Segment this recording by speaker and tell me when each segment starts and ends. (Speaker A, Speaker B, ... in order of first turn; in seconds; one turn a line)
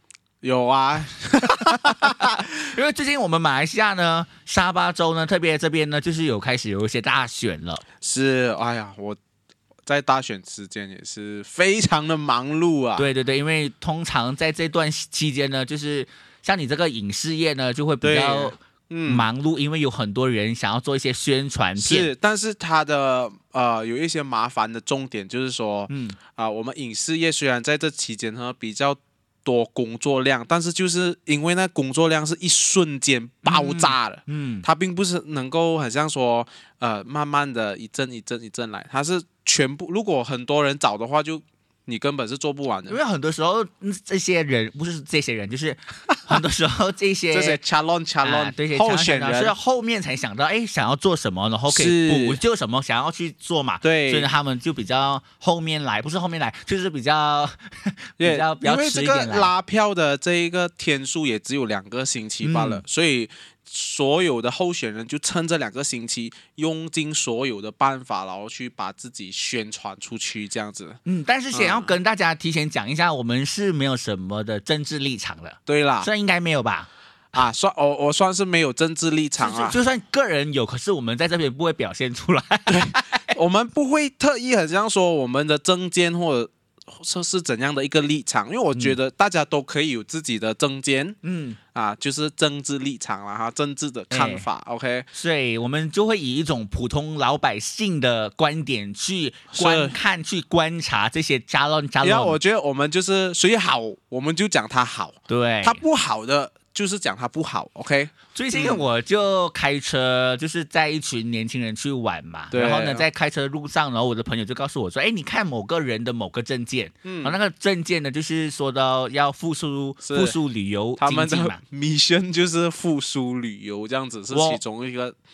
Speaker A: 0.4-2.4
Speaker B: 1.8-7.8
Speaker A: 8.0-9.2
Speaker A: 9.9-13.1
Speaker B: 13.0-22.1
Speaker A: 18.0-19.3
Speaker A: 21.8-43.0
Speaker B: 25.9-26.2
Speaker B: 33.5-34.7
Speaker B: 42.9-47.6
Speaker A: 47.3-49.5
Speaker B: 48.2-59.5
Speaker A: 51.7-52.4
Speaker A: 53.8-54.3
Speaker A: 58.2-71.0
Speaker B: 62.4-62.8
Speaker B: 71.0-76.9
Speaker A: 71.5-72.0
Speaker A: 75.7-76.1
Speaker A: 77.3-79.8
Speaker B: 79.4-83.3
Speaker A: 82.7-91.2
Speaker B: 91.2-91.6
Speaker A: 91.7-95.1
Speaker B: 94.1-94.5
Speaker B: 95.1-102.4
Speaker A: 99.5-99.9
Speaker A: 102.0-108.8
Speaker B: 105.3-105.8
Speaker B: 108.3-121.6
Speaker A: 112.5-113.0
Speaker A: 117.0-117.4
Speaker A: 120.0-120.4
Speaker A: 121.0-125.2
Speaker B: 124.3-124.6